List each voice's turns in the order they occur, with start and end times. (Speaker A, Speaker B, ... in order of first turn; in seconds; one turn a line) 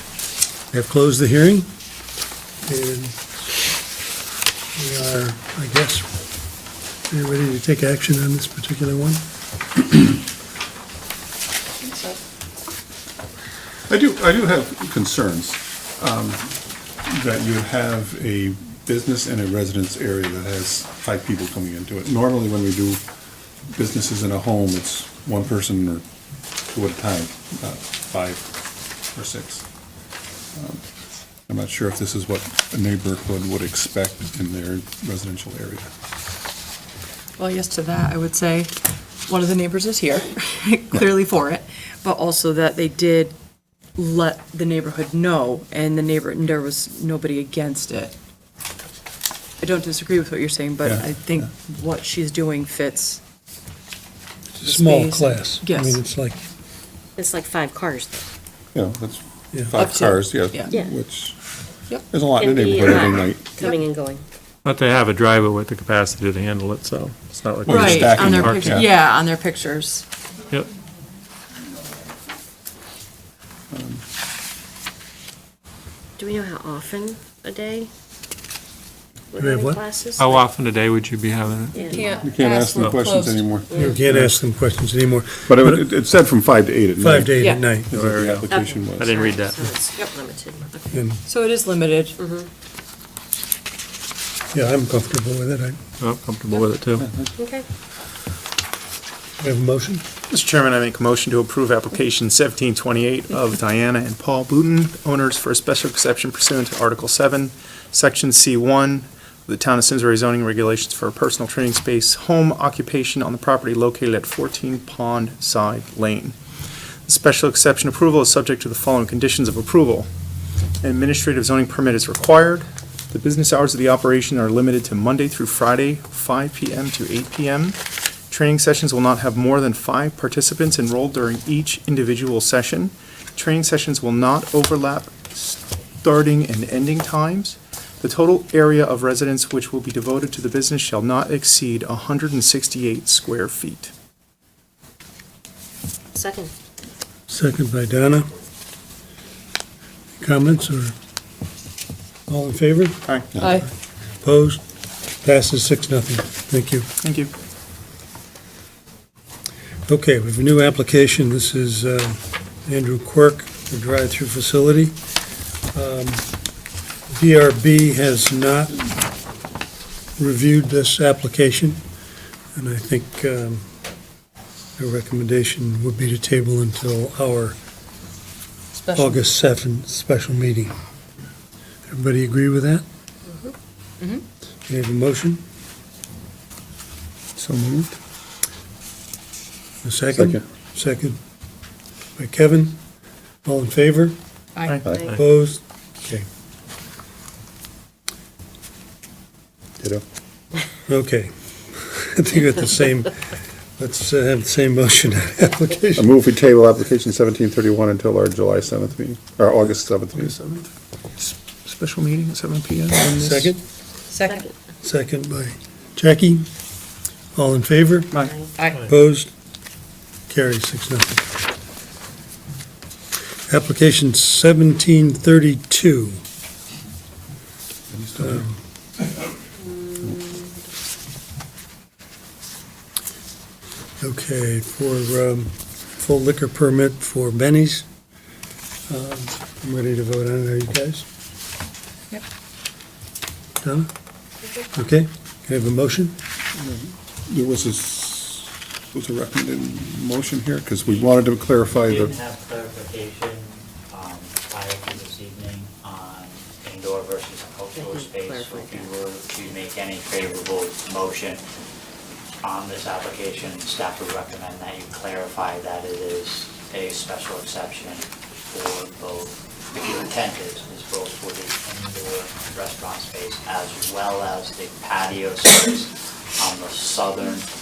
Speaker A: 0.7-1.7
Speaker A: 2.6-3.2
Speaker A: 4.8-6.1
Speaker A: 7.1-9.2
Speaker B: 11.8-12.2
Speaker C: 13.9-23.0
Speaker C: 23.7-26.1
Speaker C: 26.7-28.5
Speaker C: 29.1-29.6
Speaker C: 30.6-30.8
Speaker C: 31.5-35.9
Speaker B: 37.4-38.7
Speaker B: 39.3-43.4
Speaker B: 44.0-48.1
Speaker B: 49.6-53.2
Speaker A: 54.6-56.4
Speaker B: 54.6-56.0
Speaker D: 57.2-58.2
Speaker C: 58.7-61.4
Speaker B: 59.8-60.8
Speaker C: 62.1-63.5
Speaker D: 62.4-64.2
Speaker E: 64.7-68.9
Speaker C: 67.6-68.9
Speaker B: 67.7-70.0
Speaker C: 73.7-74.0
Speaker D: 76.2-77.9
Speaker D: 79.3-80.3
Speaker A: 79.4-79.8
Speaker E: 80.2-82.0
Speaker D: 81.7-82.3
Speaker B: 81.9-83.6
Speaker C: 82.2-84.3
Speaker E: 82.7-83.0
Speaker D: 83.7-84.0
Speaker A: 83.8-85.8
Speaker C: 85.5-89.2
Speaker A: 87.0-87.9
Speaker B: 87.4-87.8
Speaker E: 87.9-89.7
Speaker D: 88.5-90.8
Speaker A: 90.9-91.2
Speaker B: 91.2-92.2
Speaker D: 92.2-92.5
Speaker A: 94.5-95.8
Speaker E: 96.0-97.1
Speaker C: 97.0-97.3
Speaker D: 97.4-97.6
Speaker A: 99.4-100.0
Speaker F: 100.3-116.4
Speaker F: 117.1-120.1
Speaker F: 120.8-127.8
Speaker F: 128.3-143.9
Speaker D: 146.2-146.5
Speaker A: 147.3-148.3
Speaker A: 150.2-150.9
Speaker A: 152.3-153.0
Speaker F: 153.1-153.3
Speaker B: 153.4-153.7
Speaker A: 154.2-154.6
Speaker A: 155.2-156.9
Speaker F: 157.0-157.3
Speaker A: 159.9-165.0
Speaker A: 165.7-166.3
Speaker A: 167.1-169.0
Speaker A: 170.2-171.8
Speaker A: 172.6-173.7
Speaker A: 174.8-177.6
Speaker B: 178.8-179.2
Speaker A: 178.9-180.7
Speaker A: 181.9-182.8
Speaker A: 184.7-185.4
Speaker C: 187.4-188.0
Speaker A: 189.8-191.2
Speaker C: 190.1-190.4
Speaker A: 192.2-192.8
Speaker A: 193.4-194.2
Speaker B: 194.6-194.8
Speaker E: 194.9-195.2
Speaker A: 195.1-196.3
Speaker A: 200.9-206.1
Speaker C: 206.0-210.4
Speaker F: 211.9-213.4
Speaker A: 213.0-213.6
Speaker B: 214.1-214.5
Speaker D: 214.2-214.5
Speaker A: 214.8-216.5
Speaker A: 217.3-218.2
Speaker B: 218.6-218.8
Speaker A: 218.8-219.3
Speaker A: 220.3-221.3
Speaker A: 223.5-226.2
Speaker C: 227.9-228.5
Speaker A: 228.2-228.6
Speaker A: 234.0-237.9
Speaker A: 238.9-241.1
Speaker A: 243.6-243.9
Speaker A: 244.7-246.2
Speaker C: 246.6-252.2
Speaker G: 251.7-261.4
Speaker D: 257.8-258.8
Speaker G: 262.4-277.5